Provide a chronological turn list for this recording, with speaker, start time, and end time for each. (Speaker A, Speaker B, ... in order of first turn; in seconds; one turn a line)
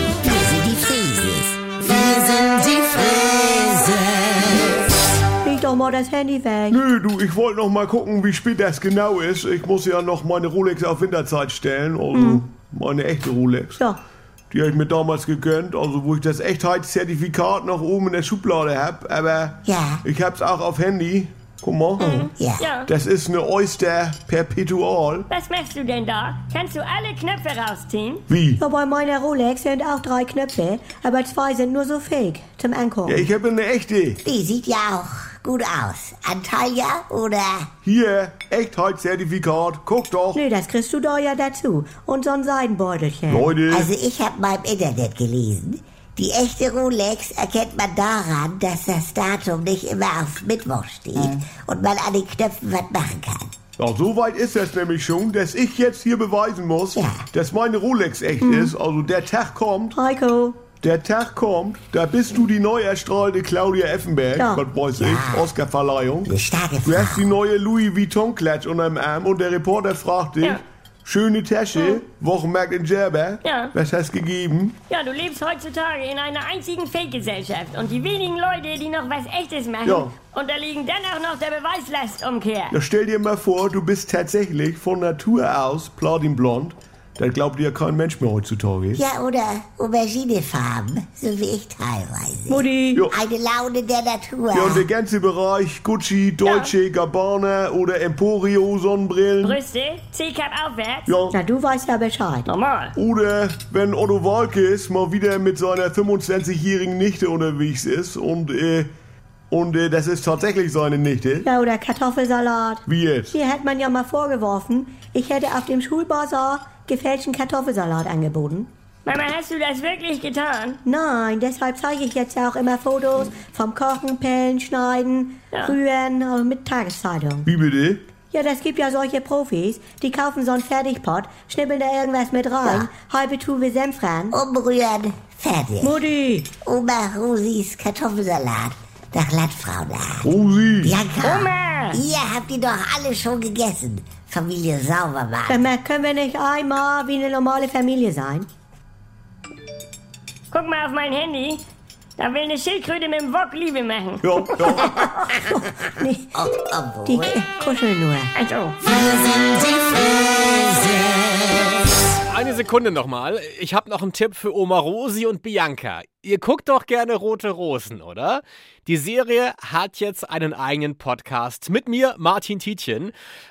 Speaker A: 0.2-4.8
Speaker B: 5.4-6.8
Speaker C: 6.7-13.8
Speaker B: 12.1-12.4
Speaker C: 14.5-22.3
Speaker A: 19.6-20.0
Speaker D: 22.0-22.9
Speaker A: 22.0-22.7
Speaker C: 22.9-25.3
Speaker D: 25.3-28.2
Speaker C: 28.3-28.6
Speaker B: 28.6-33.3
Speaker C: 33.1-34.2
Speaker A: 34.2-37.7
Speaker C: 37.8-40.4
Speaker B: 40.3-43.5
Speaker C: 43.3-43.9
Speaker A: 43.7-53.5
Speaker C: 53.8-60.0
Speaker A: 56.9-57.3
Speaker B: 58.4-58.8
Speaker B: 59.9-60.6
Speaker C: 60.8-74.8
Speaker B: 64.4-64.6
Speaker A: 65.0-65.5
Speaker A: 66.3-67.3
Speaker D: 71.7-72.0
Speaker D: 73.4-73.8
Speaker D: 74.9-82.8
Speaker C: 79.8-80.1
Speaker C: 82.7-89.0
Speaker A: 88.9-94.9
Speaker B: 92.5-93.0
Speaker C: 94.5-99.6
Speaker D: 96.4-96.8
Speaker D: 99.4-101.1
Speaker C: 101.1-101.4
Speaker B: 101.3-102.5
Speaker D: 102.5-103.0
Speaker C: 103.0-108.9
Speaker C: 109.5-111.5
Speaker B: 111.4-118.7
Speaker C: 112.9-113.3
Speaker D: 119.1-120.8
Speaker B: 120.8-127.5
Speaker D: 125.5-125.8
Speaker C: 127.5-128.0
Speaker B: 128.3-134.3
Speaker A: 132.6-132.9
Speaker A: 134.3-136.0
Speaker B: 135.8-136.5
Speaker A: 136.6-145.7
Speaker C: 140.2-140.9
Speaker D: 141.2-142.0
Speaker B: 145.5-148.5
Speaker D: 150.5-151.6
Speaker D: 152.2-154.6
Speaker C: 154.2-155.0
Speaker B: 155.5-156.3
Speaker A: 156.3-157.4
Speaker B: 157.1-158.3
Speaker D: 158.3-158.8
Speaker E: 162.2-173.1